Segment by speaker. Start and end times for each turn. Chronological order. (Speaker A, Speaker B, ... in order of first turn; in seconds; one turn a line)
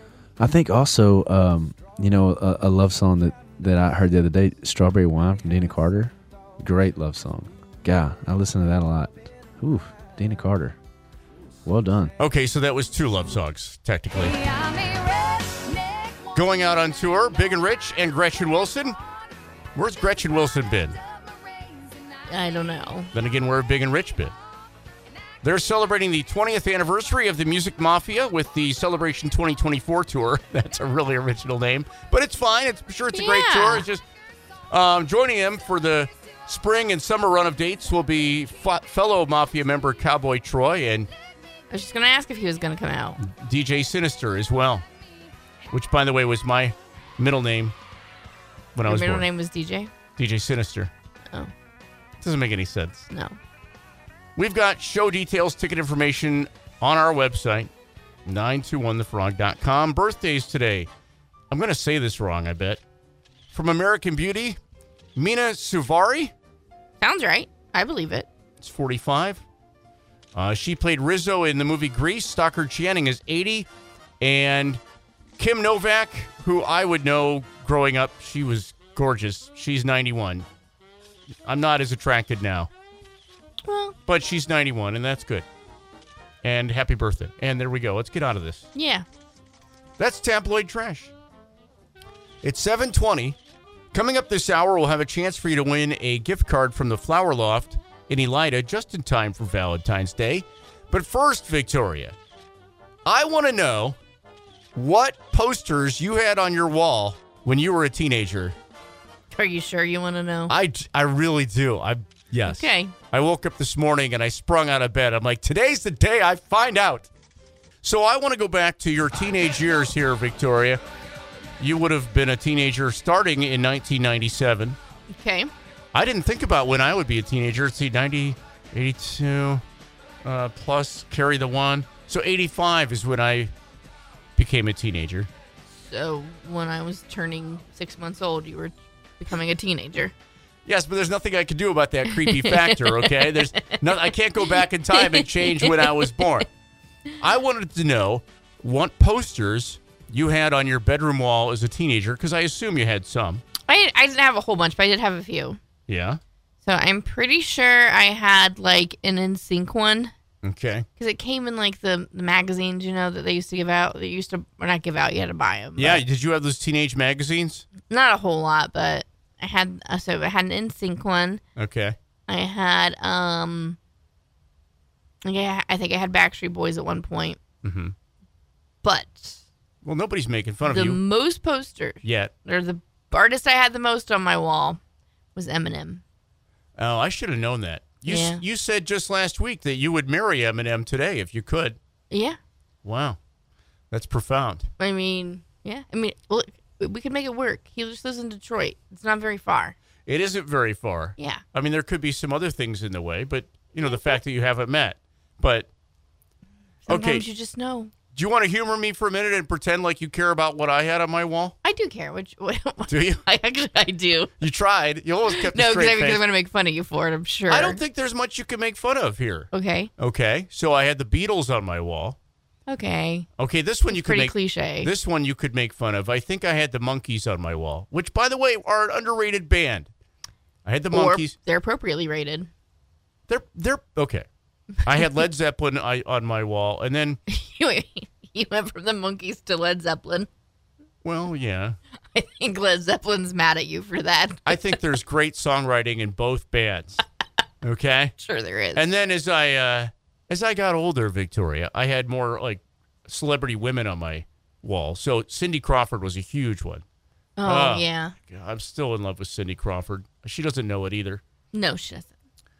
Speaker A: 0.4-10.8
Speaker A: 11.6-12.1
Speaker B: 12.2-14.4
Speaker C: 14.6-15.8
Speaker B: 16.3-19.0
Speaker B: 19.7-21.0
Speaker C: 22.2-23.1
Speaker B: 23.1-24.3
Speaker B: 25.4-34.0
Speaker C: 33.1-33.9
Speaker B: 34.7-41.1
Speaker C: 41.7-43.2
Speaker B: 43.2-44.8
Speaker B: 45.7-47.7
Speaker B: 48.8-49.3
Speaker C: 48.8-49.9
Speaker B: 50.2-50.9
Speaker B: 52.2-53.1
Speaker C: 53.1-53.4
Speaker B: 54.4-57.7
Speaker B: 58.2-60.9
Speaker B: 61.5-62.8
Speaker B: 63.5-64.6
Speaker B: 65.2-66.3
Speaker C: 67.0-68.3
Speaker B: 68.6-69.4
Speaker B: 70.3-73.7
Speaker B: 74.2-74.8
Speaker B: 75.4-80.5
Speaker B: 81.5-82.7
Speaker C: 83.6-84.0
Speaker B: 84.1-85.4
Speaker B: 86.4-88.7
Speaker C: 88.7-89.0
Speaker B: 90.0-91.1
Speaker B: 92.4-93.4
Speaker B: 93.9-102.1
Speaker B: 103.0-104.0
Speaker B: 104.7-108.5
Speaker C: 109.3-110.5
Speaker B: 110.5-117.1
Speaker C: 112.5-112.9
Speaker B: 117.8-120.8
Speaker B: 121.6-124.8
Speaker C: 125.1-125.5
Speaker B: 125.9-129.6
Speaker B: 130.2-133.5
Speaker B: 134.4-135.3
Speaker C: 135.7-140.1
Speaker B: 140.7-146.5
Speaker C: 142.3-144.0
Speaker C: 144.9-146.2
Speaker B: 147.2-153.4
Speaker C: 153.7-155.6
Speaker B: 155.9-156.2
Speaker C: 156.6-160.1
Speaker B: 160.4-160.8
Speaker C: 161.0-166.0
Speaker B: 165.8-167.7
Speaker C: 167.9-171.4
Speaker B: 171.6-171.9
Speaker C: 172.3-173.8
Speaker C: 175.2-177.4
Speaker B: 177.6-177.9
Speaker C: 178.8-179.4
Speaker B: 179.8-181.0
Speaker C: 180.6-184.8
Speaker B: 182.0-182.3
Speaker C: 185.3-186.0
Speaker B: 186.8-191.8
Speaker C: 188.1-188.4
Speaker C: 192.1-192.4
Speaker B: 192.8-193.2
Speaker B: 193.9-194.7
Speaker C: 194.8-199.7
Speaker B: 200.1-205.7
Speaker C: 206.9-207.9
Speaker B: 206.9-207.2
Speaker B: 208.1-211.5
Speaker C: 211.6-214.3
Speaker B: 212.9-213.2
Speaker B: 214.4-216.2
Speaker C: 215.3-217.8
Speaker B: 217.5-222.2
Speaker C: 219.5-219.9
Speaker C: 222.7-223.3
Speaker B: 223.4-229.9
Speaker C: 223.9-224.9
Speaker B: 230.6-231.3
Speaker C: 230.9-232.5
Speaker B: 233.3-234.2
Speaker B: 234.8-237.2
Speaker C: 237.3-240.3
Speaker B: 241.0-241.8
Speaker C: 242.1-244.8
Speaker B: 244.4-247.0
Speaker B: 247.6-248.1
Speaker C: 248.2-248.9
Speaker B: 248.7-256.8
Speaker C: 257.4-258.1
Speaker B: 257.4-261.2
Speaker C: 261.5-262.1